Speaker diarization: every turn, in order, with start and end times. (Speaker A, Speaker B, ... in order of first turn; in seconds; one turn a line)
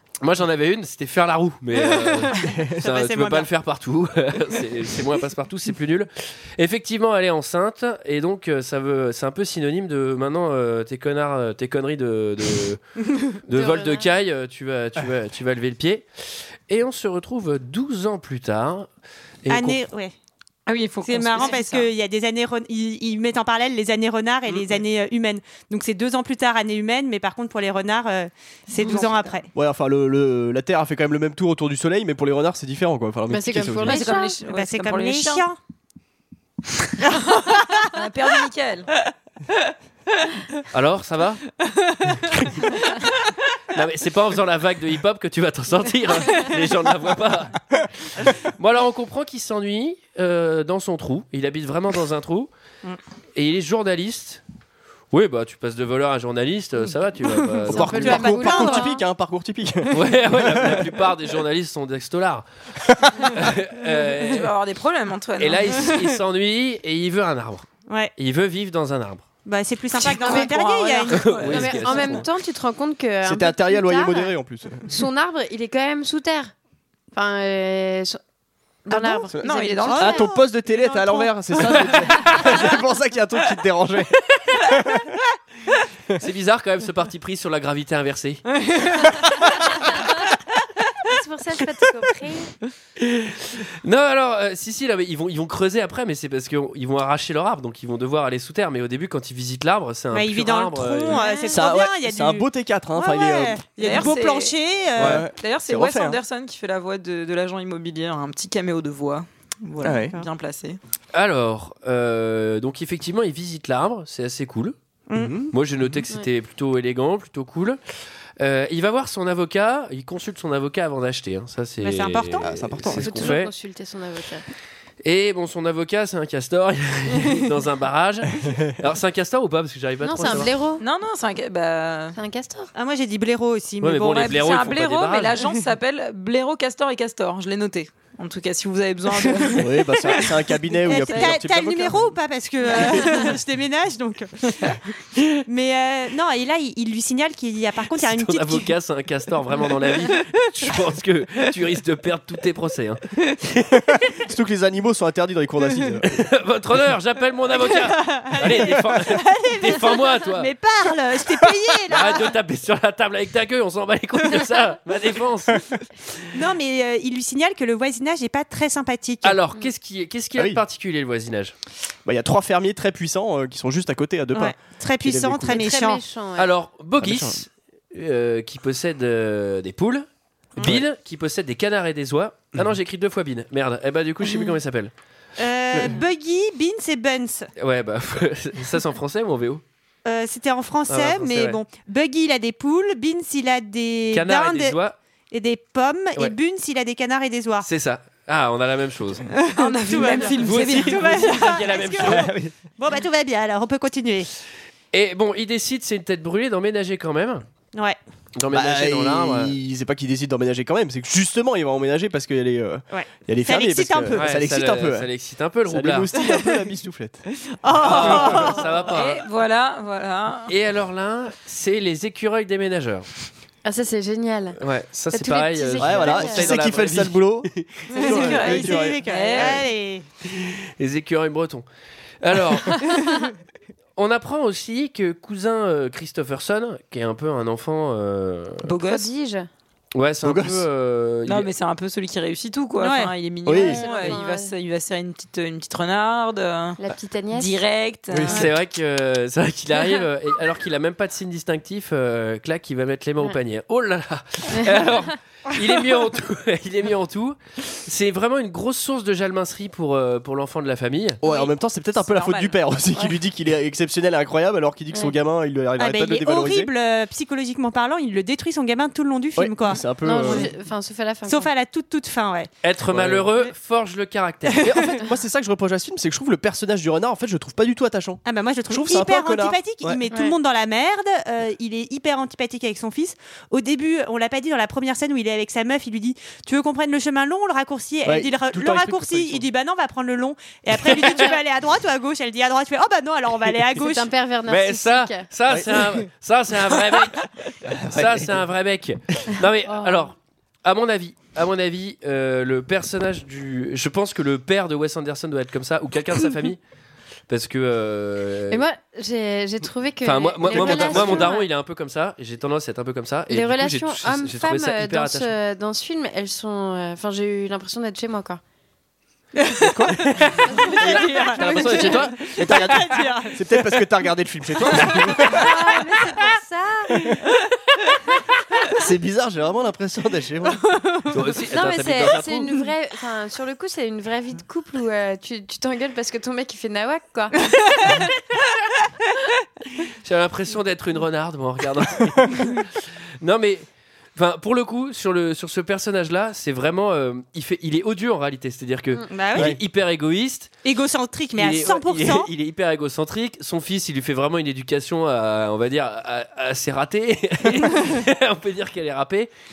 Speaker A: 0.2-12.8
Speaker B: 2.3-2.9
Speaker C: 2.8-3.5
Speaker A: 13.4-16.1
Speaker D: 13.5-14.1
Speaker A: 16.7-18.9
Speaker A: 19.4-19.8
Speaker C: 19.5-20.1
Speaker E: 20.7-21.9
Speaker C: 21.0-29.5
Speaker E: 28.8-29.4
Speaker B: 29.5-34.1
Speaker D: 33.3-34.4
Speaker E: 33.8-35.5
Speaker C: 34.4-35.6
Speaker C: 37.1-37.9
Speaker E: 37.9-38.9
Speaker A: 40.7-41.4
Speaker A: 42.2-42.8
Speaker A: 43.7-52.5
Speaker A: 53.4-54.4
Speaker A: 55.1-58.2
Speaker D: 57.7-59.0
Speaker B: 57.7-61.0
Speaker C: 58.0-59.0
Speaker A: 59.9-62.5
Speaker B: 62.9-63.5
Speaker A: 63.2-64.5
Speaker E: 64.2-66.0
Speaker A: 65.4-69.2
Speaker C: 67.9-68.1
Speaker C: 69.5-71.4
Speaker E: 70.0-72.2
Speaker D: 70.2-70.5
Speaker A: 71.2-72.2
Speaker D: 71.4-74.3
Speaker B: 73.2-75.0
Speaker D: 74.9-76.5
Speaker D: 77.1-78.2
Speaker D: 78.9-80.3
Speaker C: 78.9-79.2
Speaker B: 79.3-85.1
Speaker E: 79.4-80.2
Speaker C: 79.8-80.3
Speaker A: 81.9-82.5
Speaker A: 86.2-88.4
Speaker D: 91.0-92.5
Speaker A: 93.0-101.2
Speaker C: 100.1-105.3
Speaker D: 101.1-101.6
Speaker B: 101.5-103.6
Speaker E: 103.8-104.6
Speaker A: 105.0-105.2
Speaker B: 105.0-106.2
Speaker E: 105.4-110.8
Speaker B: 109.8-110.2
Speaker A: 111.1-114.8
Speaker C: 115.1-115.3
Speaker B: 115.1-115.5
Speaker A: 115.5-117.8
Speaker A: 118.4-123.5
Speaker C: 121.8-122.5
Speaker B: 122.4-123.1
Speaker D: 123.0-124.4
Speaker A: 125.0-130.5
Speaker D: 130.0-130.8
Speaker E: 130.8-132.2
Speaker D: 132.1-132.7
Speaker C: 132.8-134.6
Speaker A: 133.8-135.4
Speaker E: 134.1-141.4
Speaker B: 139.6-142.2
Speaker C: 140.8-144.8
Speaker C: 145.5-148.7
Speaker A: 147.9-153.5
Speaker B: 153.7-156.1
Speaker A: 156.0-160.5
Speaker C: 157.5-162.3
Speaker A: 161.9-165.8
Speaker C: 166.3-169.4
Speaker A: 169.2-171.5
Speaker B: 170.4-170.6
Speaker B: 172.0-175.6
Speaker C: 174.3-176.0
Speaker D: 175.5-176.5
Speaker A: 176.4-180.1
Speaker B: 177.0-177.4
Speaker B: 180.6-180.9
Speaker A: 180.6-184.9
Speaker C: 185.4-187.5
Speaker B: 185.7-186.0
Speaker A: 187.6-189.6
Speaker C: 190.0-194.8
Speaker A: 190.9-191.6
Speaker A: 194.1-195.0
Speaker C: 195.3-197.7
Speaker A: 197.6-199.2
Speaker C: 199.4-204.3
Speaker E: 199.6-201.7
Speaker A: 200.4-202.3
Speaker B: 202.0-202.5
Speaker A: 204.9-207.4
Speaker A: 208.4-209.6
Speaker B: 208.5-215.1
Speaker C: 212.9-214.3
Speaker A: 214.1-216.1
Speaker B: 215.6-217.2
Speaker C: 217.6-218.7
Speaker A: 217.8-219.2
Speaker B: 217.9-218.5
Speaker E: 218.8-220.5
Speaker A: 220.5-223.1
Speaker D: 223.6-224.6
Speaker A: 224.6-227.5
Speaker D: 225.1-226.7
Speaker B: 225.8-229.0
Speaker E: 227.9-229.7
Speaker C: 227.9-230.1
Speaker A: 230.3-231.6
Speaker A: 232.2-233.2
Speaker A: 234.0-238.6
Speaker E: 238.6-239.1
Speaker D: 238.8-239.5
Speaker A: 239.9-241.5
Speaker B: 240.2-240.7
Speaker E: 241.3-246.8
Speaker C: 242.8-243.1
Speaker B: 243.5-243.8
Speaker D: 243.6-244.5
Speaker D: 246.8-247.6
Speaker E: 247.3-248.4
Speaker B: 248.1-248.5
Speaker A: 248.3-261.2
Speaker D: 254.5-254.9
Speaker B: 261.2-266.7
Speaker E: 261.2-261.5
Speaker E: 262.0-263.2
Speaker C: 265.8-270.5
Speaker B: 269.4-270.5
Speaker D: 270.0-271.5
Speaker C: 271.3-272.5
Speaker A: 272.6-274.9
Speaker B: 272.9-273.3
Speaker B: 274.6-280.0
Speaker C: 278.2-294.1
Speaker D: 280.1-280.4
Speaker B: 288.0-289.5
Speaker B: 290.8-291.3
Speaker D: 293.8-295.3
Speaker A: 294.5-297.3
Speaker B: 295.5-296.1
Speaker B: 297.6-298.5
Speaker A: 297.9-306.6
Speaker D: 299.7-300.0
Speaker A: 307.3-308.6
Speaker D: 308.5-311.5
Speaker A: 310.0-315.3
Speaker B: 310.6-311.3
Speaker D: 313.3-318.4
Speaker C: 319.4-319.9
Speaker B: 319.7-320.0
Speaker A: 320.1-322.4
Speaker D: 320.4-321.0
Speaker C: 320.5-323.6
Speaker B: 321.4-325.5
Speaker C: 324.8-325.5
Speaker D: 325.2-327.0
Speaker B: 328.8-330.6
Speaker C: 330.7-331.1
Speaker A: 331.1-332.5
Speaker D: 331.5-337.5
Speaker A: 340.0-350.5
Speaker C: 349.1-349.6
Speaker C: 350.6-352.3
Speaker A: 351.4-359.3